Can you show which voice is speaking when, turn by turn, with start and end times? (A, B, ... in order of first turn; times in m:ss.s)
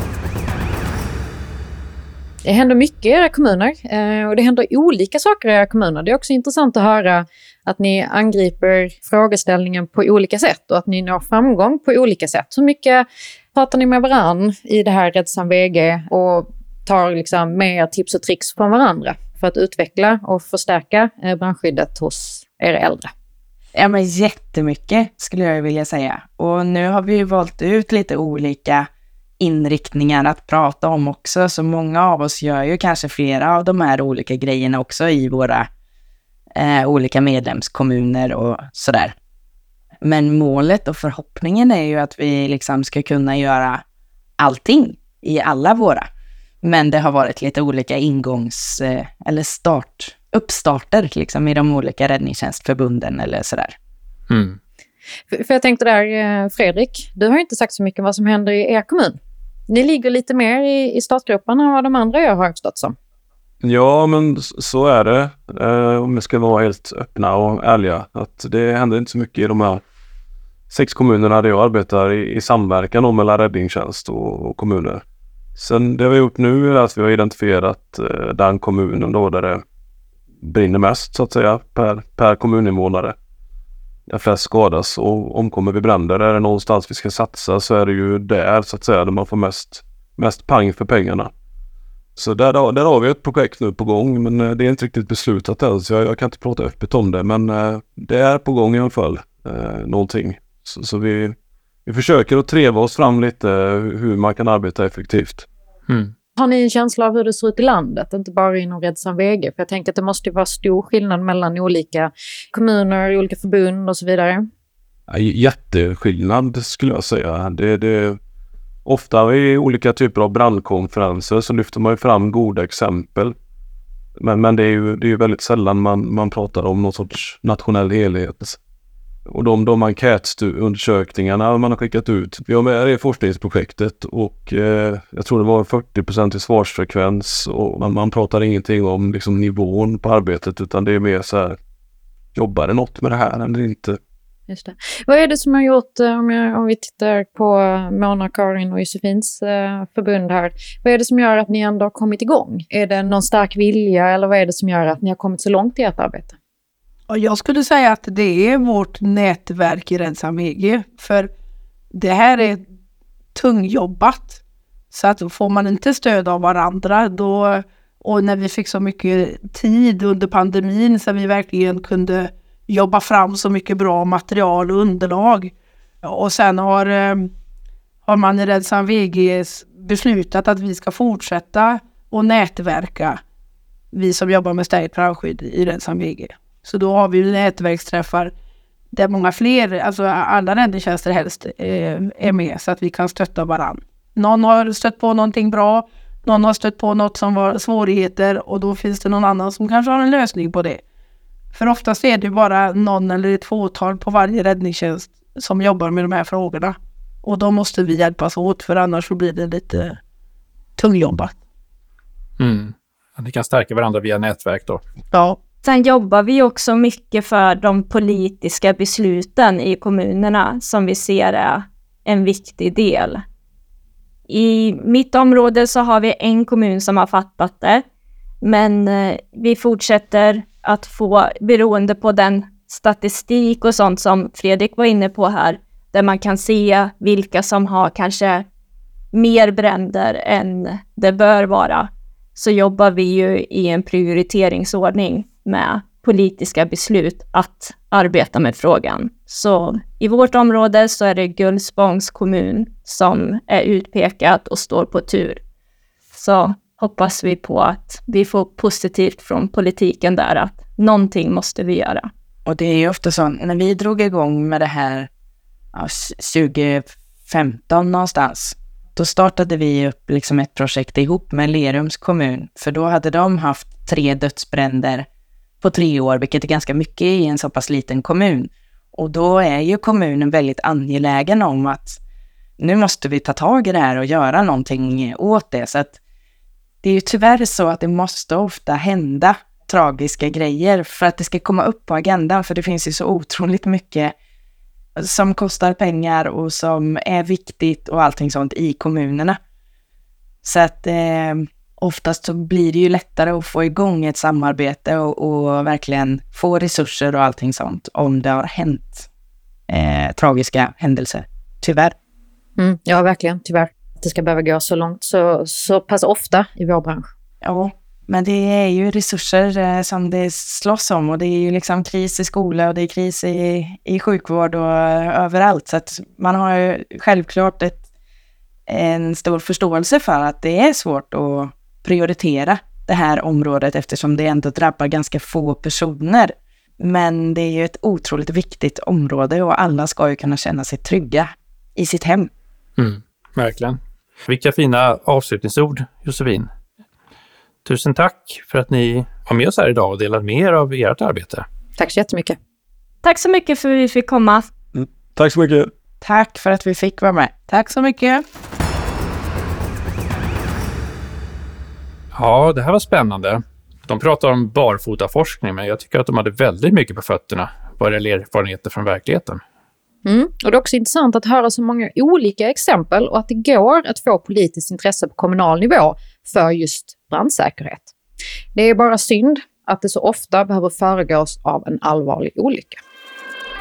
0:02.4-0:23.1 A
0:23.8-0:28.9 B
0:29.4-0:35.7 B
0:36.6-0:39.2 B
0:40.0-0:43.8 B
0:44.4-0:46.1 B
0:46.6-0:53.8 B
0:54.3-0:54.6 C
0:55.3-1:03.0 A
1:03.6-1:09.8 D
1:10.7-1:15.0 D
1:15.6-1:19.6 D
1:20.4-1:23.2 D
1:24.1-1:31.3 D
1:32.2-1:41.4 D
1:41.9-1:45.5 D
1:45.9-1:46.1 C
1:46.4-1:54.5 A
1:55.1-1:58.2 D
1:58.9-2:03.3 D
2:04.2-2:08.6 D
2:09.3-2:21.6 D
2:22.4-2:24.0 D
2:24.5-2:36.4 A
2:37.1-2:41.3 E
2:41.9-2:42.6 E
2:43.4-2:44.4 E
2:44.9-2:57.3 E
2:58.1-3:03.2 E
3:03.9-3:08.3 E
3:08.9-3:20.8 E
3:21.5-3:30.0 E
3:30.8-3:31.4 E
3:32.4-3:34.8 C
3:35.1-3:35.4 E
3:35.6-3:43.2 F
3:44.3-3:47.8 F
3:48.4-3:58.4 F
3:59.1-4:15.4 F
4:16.1-4:22.1 F
4:22.5-4:25.1 B
4:25.7-4:35.1 B
4:35.6-4:42.0 B
4:42.6-4:46.0 B
4:46.8-4:54.1 B
4:55.0-4:59.4 B
5:00.4-5:09.1 B
5:09.7-5:12.0 B
5:12.6-5:17.1 A
5:17.4-5:27.8 B
5:28.7-5:42.3 B
5:42.8-5:46.5 C
5:47.6-5:51.5 C
5:51.8-5:52.4 A
5:53.0-5:54.5 F
5:54.7-5:55.7 D
5:56.0-5:58.2 B
6:02.1-6:09.4 C
6:10.0-6:17.9 A
6:18.6-6:22.8 A